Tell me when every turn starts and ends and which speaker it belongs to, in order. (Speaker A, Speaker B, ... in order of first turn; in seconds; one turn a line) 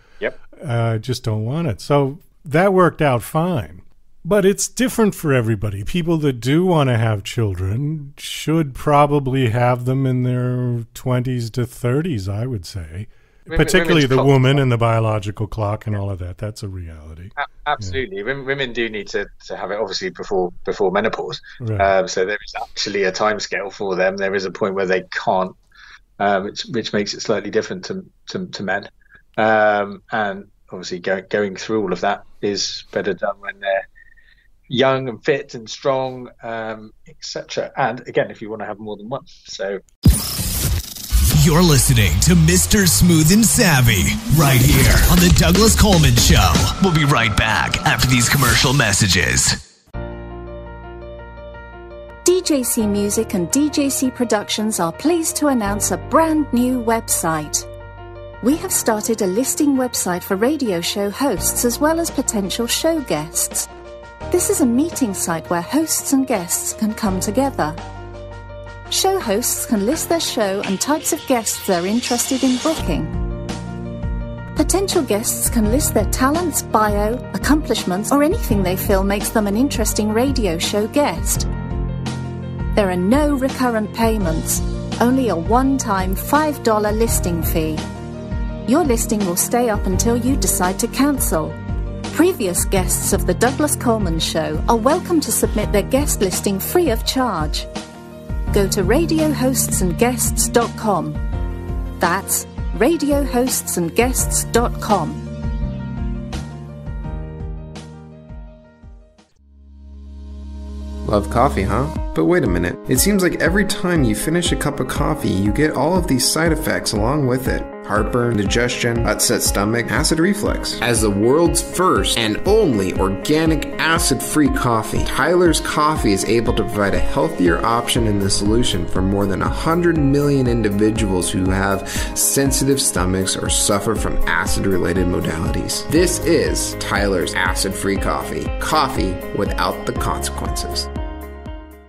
Speaker A: 0.5-18.0
Speaker B: 13.5-14.6
Speaker B: 17.4-25.6
Speaker A: 21.6-21.9
Speaker B: 26.2-33.9
Speaker B: 34.7-39.8
Speaker C: 41.4-49.6
Speaker D: 52.2-57.7
Speaker D: 58.4-63.7
Speaker D: 64.3-67.8
Speaker D: 68.9-73.2
Speaker D: 74.5-81.5
Speaker D: 82.8-87.8
Speaker D: 88.7-91.5
Speaker D: 92.1-97.7
Speaker D: 98.5-101.2
Speaker D: 102.0-105.3
Speaker E: 111.0-140.9